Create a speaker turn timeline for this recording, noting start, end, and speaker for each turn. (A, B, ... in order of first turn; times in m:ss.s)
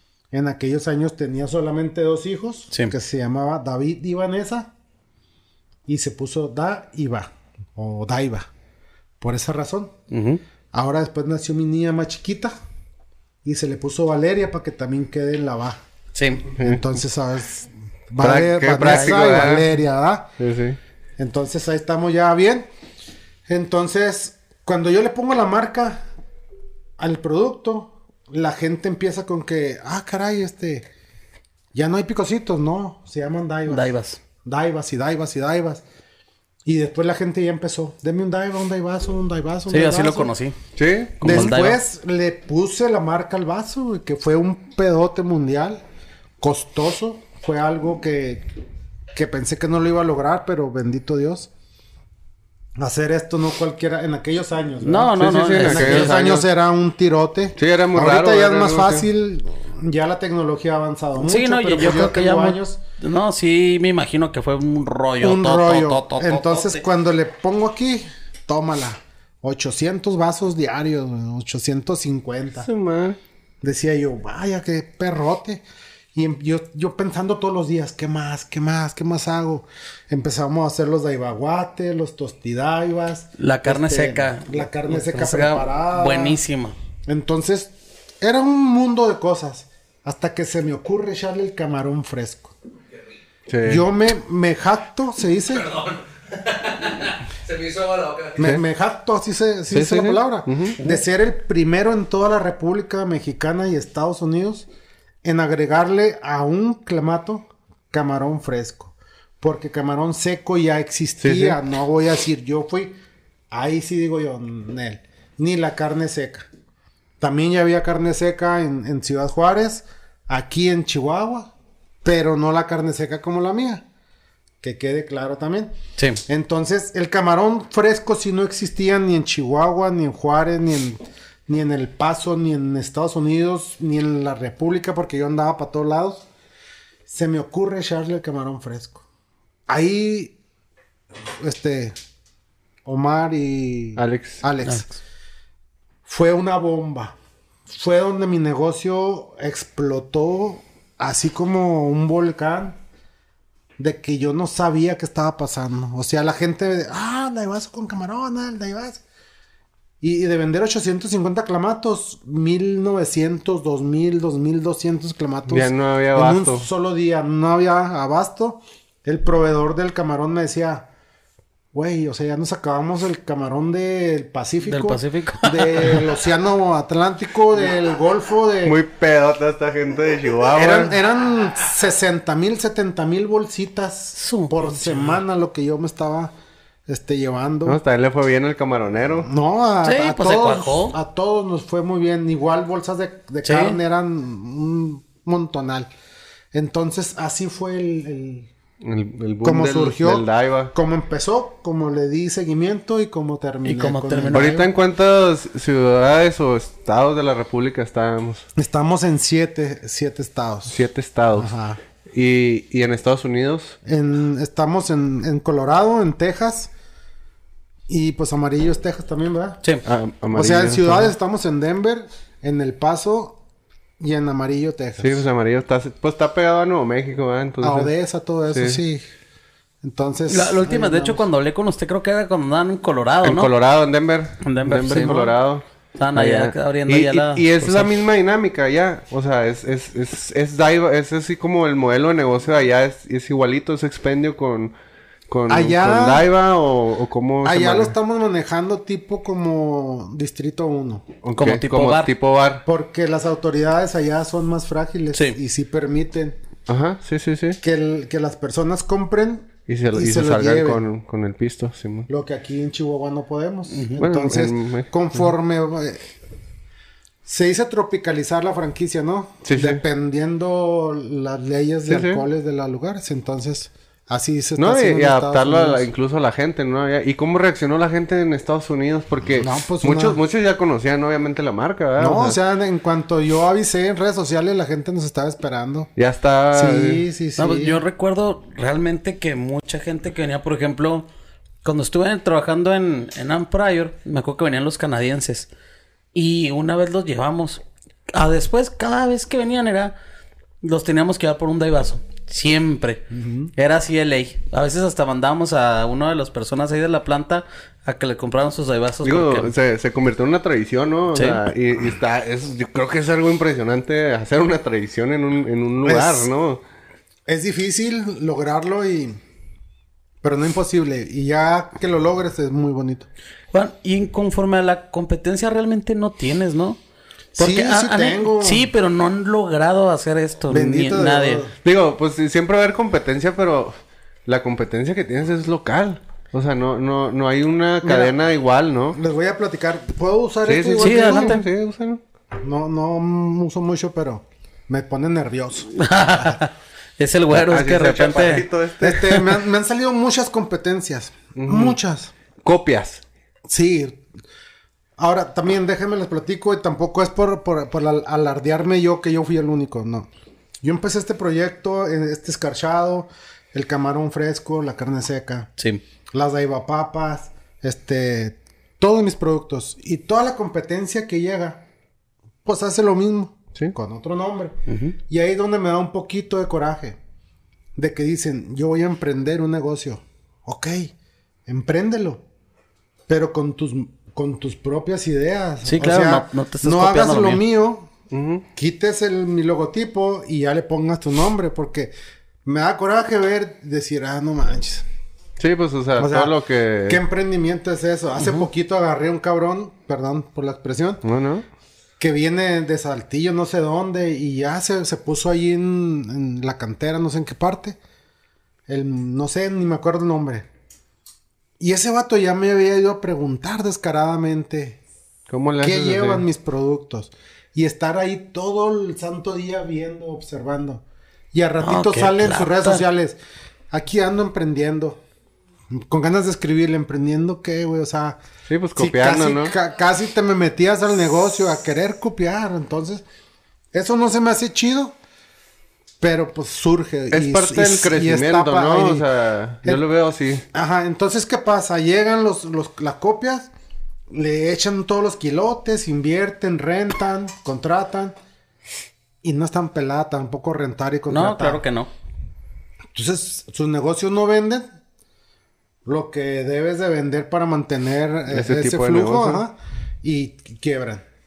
0:00.3-0:04.7 A
0:05.8-0:08.5 A
0:09.2-0:09.9 A
0:10.1-0:10.4 B
0:10.7-0:12.5 A
0:13.4-0:15.8 A
0:16.1-0:16.5 B
0:16.6-0:20.3 A
0:18.2-0:19.7 C
0:18.8-0:19.2 B
0:20.4-0:20.8 C
0:21.2-0:22.7 A
0:23.5-0:26.0 A
0:27.0-0:30.9 A
0:31.7-0:33.9 A
0:33.6-0:34.2 B
0:34.4-0:35.8 A
0:36.6-0:40.3 A
0:39.7-0:40.6 B
0:40.8-0:41.6 C
0:41.2-0:41.8 B
0:41.2-0:45.8 A
0:46.4-0:48.5 A
0:49.1-0:51.5 A
0:52.8-1:02.8 A
0:54.8-0:56.2 B
0:55.2-0:56.4 C
0:57.6-0:59.0 C
1:01.2-1:06.8 B
1:05.2-1:12.7 A
1:12.6-1:13.2 C
1:13.6-1:26.4 A
1:23.4-1:26.8 B
1:27.1-1:32.6 A
1:33.5-1:33.8 C
1:33.6-1:35.7 A
1:35.6-1:38.4 D
1:38.4-1:44.7 A
1:39.7-1:40.8 C
1:45.2-1:53.0 A
1:51.2-1:51.6 C
1:53.5-1:56.5 A
1:57.2-2:01.5 A
2:02.0-2:03.8 A
2:04.6-2:05.7 A
2:06.3-2:16.3 A
2:17.1-2:19.0 A
2:19.7-2:20.4 A
2:21.4-2:22.0 A
2:22.8-2:24.9 A
2:24.0-2:24.4 C
2:26.0-2:27.2 A
2:27.7-2:32.8 A
2:33.8-2:39.0 A
2:40.0-2:50.9 A
2:45.5-2:46.7 C
2:51.7-2:58.8 A
2:54.6-2:56.0 B
2:58.6-3:00.9 C
3:00.5-3:06.3 A
3:04.2-3:05.1 B
3:06.9-3:07.8 A
3:07.6-3:09.3 C
3:09.2-3:15.9 A
3:09.8-3:11.0 B
3:13.4-3:13.8 B
3:16.5-3:18.5 A
3:18.8-3:20.7 C
3:19.4-3:24.7 A
3:23.6-3:24.5 B
3:24.3-3:28.4 C
3:28.6-3:30.8 A
3:30.7-3:31.5 C
3:31.3-3:31.8 A
3:32.1-3:33.8 C
3:33.8-3:36.7 A
3:37.9-3:39.6 A
3:39.8-3:41.1 C
3:40.3-3:43.4 A
3:44.0-3:45.2 A
3:45.0-3:47.9 C
3:47.6-3:49.0 A
3:48.5-3:48.8 C
3:49.8-3:51.2 A
3:50.3-3:53.5 B
3:53.2-3:55.6 C
3:54.4-3:55.3 B
3:56.0-3:57.9 B
3:56.1-4:04.7 C
4:05.3-4:07.9 C
4:05.5-4:06.3 A
4:07.4-4:11.1 A
4:11.2-4:12.6 C
4:11.4-4:12.1 B
4:12.6-4:16.4 A
4:16.7-4:17.6 C
4:17.6-4:20.8 A
4:19.7-4:22.1 C
4:22.1-4:26.1 A
4:23.7-4:24.0 B
4:24.0-4:24.9 C
4:27.2-4:35.9 A
4:29.4-4:29.8 C
4:31.9-4:32.2 C
4:34.6-4:42.4 C
4:39.4-4:40.2 A
4:42.0-4:45.9 A
4:46.0-4:47.0 C
4:46.5-4:47.8 A
4:47.4-4:51.1 B
4:51.6-4:55.5 B
4:56.1-4:59.9 B
5:00.6-5:03.0 B
5:03.1-5:03.5 A
5:03.6-5:09.5 B
5:09.0-5:16.6 C
5:15.8-5:16.3 A
5:17.3-5:19.2 A
5:20.2-5:23.1 A
5:23.5-5:26.8 B
5:27.3-5:28.7 A
5:27.4-5:31.4 B
5:30.5-5:31.5 A
5:31.6-5:39.0 C
5:37.8-5:38.1 A
5:38.9-5:41.4 A
5:40.4-5:42.0 C
5:40.8-5:41.4 B
5:42.4-5:46.3 A
5:45.7-5:48.5 B
5:47.3-5:49.2 C
5:48.8-5:52.1 A
5:51.3-5:51.8 C
5:52.4-5:53.0 C
5:53.5-5:54.0 A
5:55.0-6:00.1 A
6:00.6-6:05.5 A
6:06.1-6:11.6 A
6:12.4-6:14.6 A
6:14.7-6:15.0 B
6:15.1-6:17.0 A
6:17.8-6:20.9 A
6:21.5-6:22.2 A
6:23.1-6:27.9 A
6:25.6-6:27.4 B
6:28.1-6:28.4 C
6:28.5-6:31.9 A
6:32.4-6:34.8 A
6:35.4-6:37.0 C
6:36.0-6:36.3 A
6:36.9-6:41.0 A
6:38.2-6:38.4 B
6:41.0-6:41.4 C
6:42.0-6:47.8 A
6:48.7-6:50.5 A
6:51.6-6:54.8 A
6:55.3-6:56.2 C
6:55.6-7:03.2 A
7:01.6-7:02.8 B
7:03.7-7:05.0 A
7:05.7-7:08.2 A
7:08.5-7:09.5 C
7:08.8-7:13.0 A
7:13.7-7:15.0 A
7:16.0-7:19.1 A
7:17.1-7:20.4 C
7:20.5-7:23.5 A
7:24.1-7:28.2 A
7:29.2-7:31.6 A
7:31.1-7:31.9 B
7:32.9-7:34.7 A
7:35.8-7:41.0 A
7:38.3-7:39.4 C